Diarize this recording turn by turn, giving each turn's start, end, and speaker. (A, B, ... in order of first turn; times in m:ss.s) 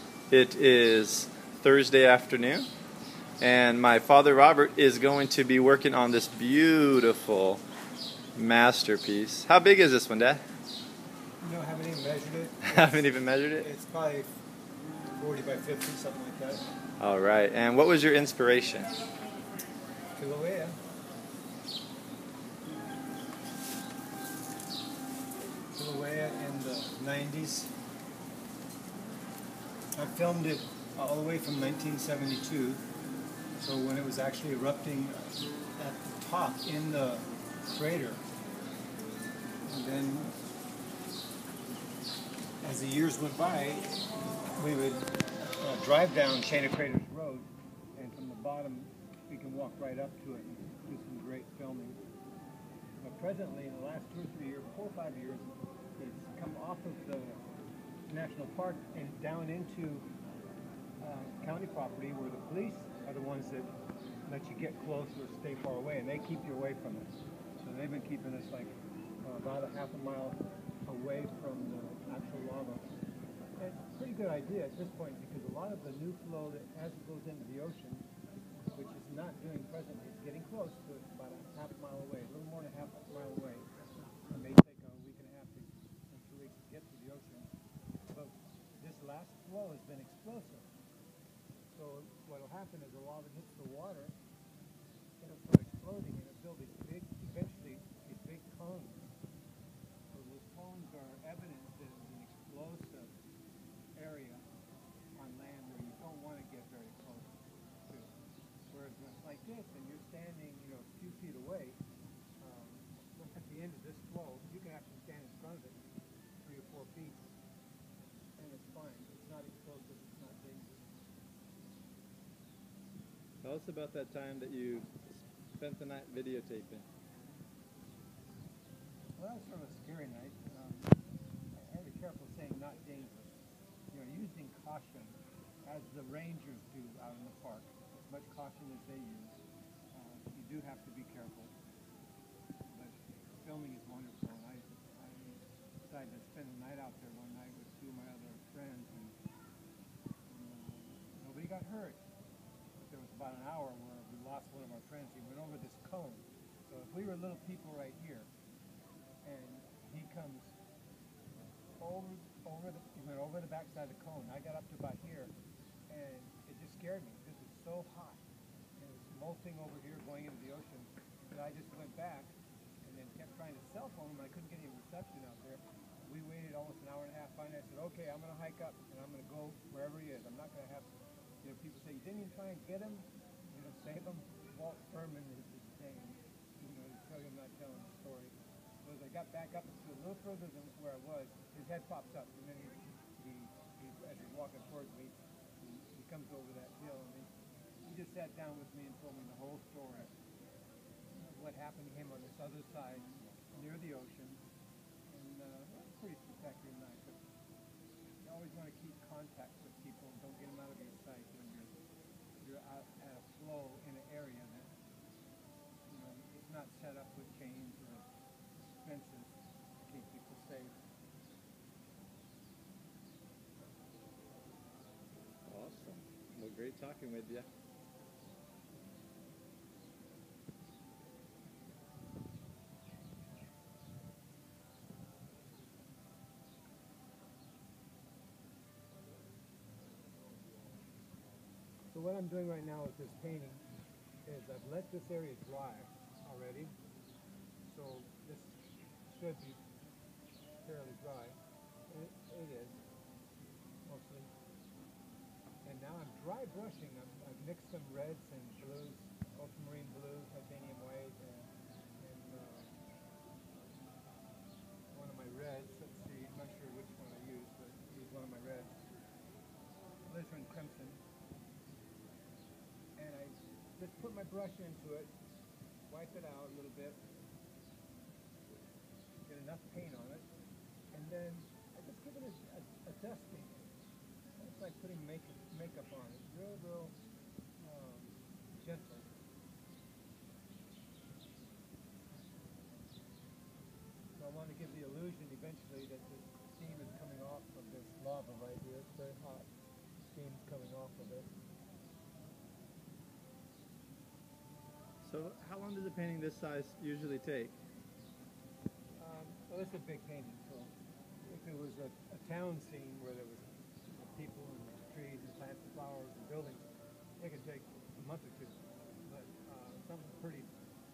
0:00.3-0:02.7 A
0:03.4-0:07.6 A
0:08.4-0:10.4 A
0:11.4-0:14.3 B
0:12.6-0:13.7 A
0:15.2-0:16.6 B
0:17.0-0:18.9 A
0:20.2-0:20.8 B
0:25.7-0:27.7 B
0:30.0-0:32.8 B
0:33.6-0:38.2 B
0:39.6-0:40.3 B
0:42.6-0:44.0 B
0:44.6-0:45.0 B
0:45.6-0:52.0 B
0:53.0-0:57.5 B
0:58.1-1:00.1 B
1:01.0-1:03.7 B
1:04.3-1:12.9 B
1:13.6-1:18.1 B
1:18.8-1:23.7 B
1:24.3-1:27.5 B
1:28.1-1:30.7 B
1:31.7-1:34.2 B
1:35.2-1:39.1 B
1:40.1-1:43.1 B
1:44.0-1:44.4 B
1:45.2-1:47.3 B
1:47.9-1:48.1 B
1:48.7-1:51.8 B
1:52.4-1:55.8 B
1:56.4-1:57.3 B
1:58.4-2:01.0 B
2:03.4-2:06.9 A
2:09.2-2:10.9 B
2:11.5-2:13.4 B
2:13.9-2:21.5 B
2:22.7-2:29.2 B
2:30.2-2:32.0 B
2:32.8-2:38.3 B
2:39.2-2:40.6 B
2:41.8-2:45.3 B
2:45.9-2:48.2 B
2:48.8-3:00.9 B
3:01.4-3:17.3 B
3:17.8-3:20.1 B
3:21.2-3:24.4 B
3:25.1-3:27.2 B
3:28.2-3:31.8 B
3:32.4-3:34.8 B
3:35.9-3:38.0 B
3:38.8-3:40.8 B
3:45.5-3:47.5 A
4:01.9-4:03.6 B
4:04.2-4:06.7 B
4:07.6-4:08.5 B
4:09.1-4:09.6 B
4:10.6-4:11.4 B
4:11.9-4:12.8 B
4:13.8-4:14.3 B
4:15.6-4:22.7 B
4:24.9-4:28.8 B
4:30.0-4:31.0 B
4:33.0-4:35.1 B
4:35.9-4:37.0 B
4:39.2-4:40.3 B
4:40.9-4:43.7 B
4:44.4-4:46.9 B
4:47.6-4:49.1 B
4:54.2-4:59.5 B
5:00.1-5:01.4 B
5:05.0-5:07.6 A
5:09.0-5:10.7 B
5:11.3-5:16.7 B
5:17.2-5:20.5 B